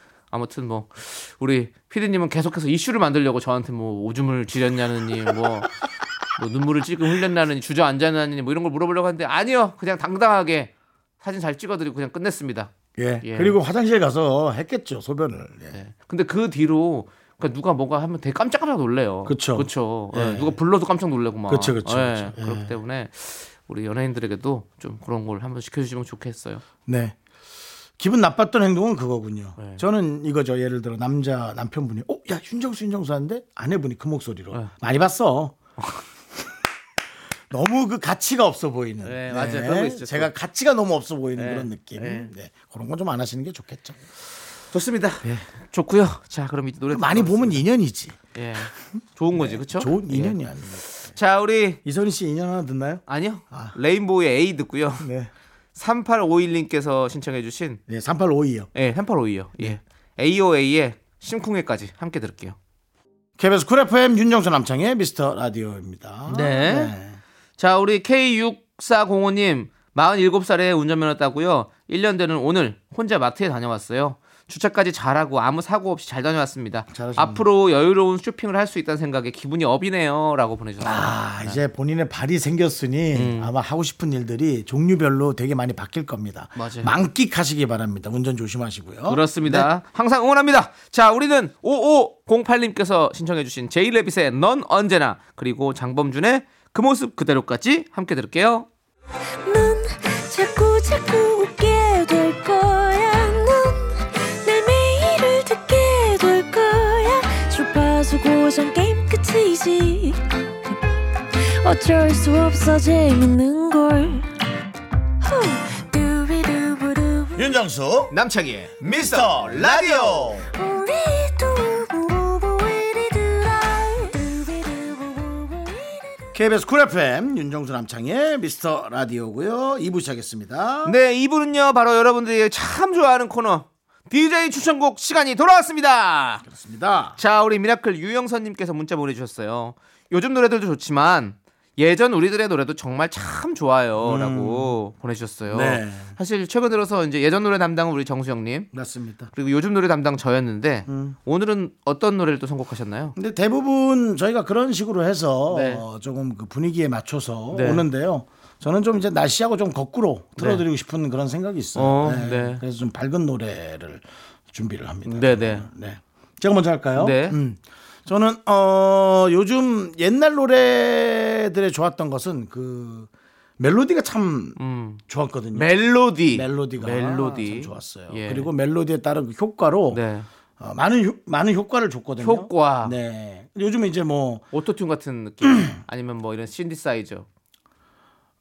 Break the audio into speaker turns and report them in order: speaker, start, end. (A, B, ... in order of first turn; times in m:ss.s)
0:00.3-0:05.8 A
0:06.4-0:12.7 A
0:13.0-0:15.8 B
0:13.2-0:13.6 A
0:15.7-0:26.6 A
0:19.3-0:20.5 B
0:21.5-0:22.7 B
0:26.9-0:27.2 B
0:28.0-0:35.6 B
0:29.6-0:29.8 A
0:37.5-0:44.0 B
0:39.0-0:40.3 A
0:41.4-0:42.3 A
0:44.7-0:47.6 A
0:46.9-0:48.2 B
0:48.4-0:51.8 A
0:49.3-0:50.8 B
0:51.8-0:53.8 B
0:53.1-0:55.1 A
0:55.0-0:55.3 B
0:55.8-0:57.8 A
0:57.9-0:58.7 B
0:58.8-1:02.6 A
1:03.4-1:07.2 B
1:06.3-1:06.9 A
1:07.6-1:21.6 A
1:16.9-1:17.4 B
1:20.8-1:29.7 B
1:23.1-1:23.5 A
1:26.6-1:26.9 A
1:29.1-1:38.7 A
1:39.4-1:50.8 C
1:51.4-1:54.3 C
1:55.2-1:57.6 C
1:57.4-1:58.1 B
1:58.1-2:00.4 A
1:58.8-2:00.5 B
2:00.5-2:06.3 C
2:06.3-2:11.0 B
2:10.8-2:16.4 A
2:16.5-2:17.2 B
2:17.2-2:28.7 A
2:24.0-2:24.8 B
2:25.5-2:26.2 B
2:28.7-2:29.3 B
2:29.4-2:33.2 A
2:30.9-2:31.2 B
2:33.2-2:54.6 B
2:35.5-2:35.8 A
2:37.5-2:37.8 A
2:40.4-2:40.6 A
2:41.8-2:42.6 A
2:45.1-2:45.7 A
2:47.0-2:47.4 A
2:54.6-2:55.0 A
2:55.1-2:55.7 B
2:55.5-2:58.5 A
2:56.3-3:00.0 B
2:59.9-3:00.3 A
3:00.6-3:04.5 B
3:02.2-3:03.0 A
3:04.5-3:07.3 A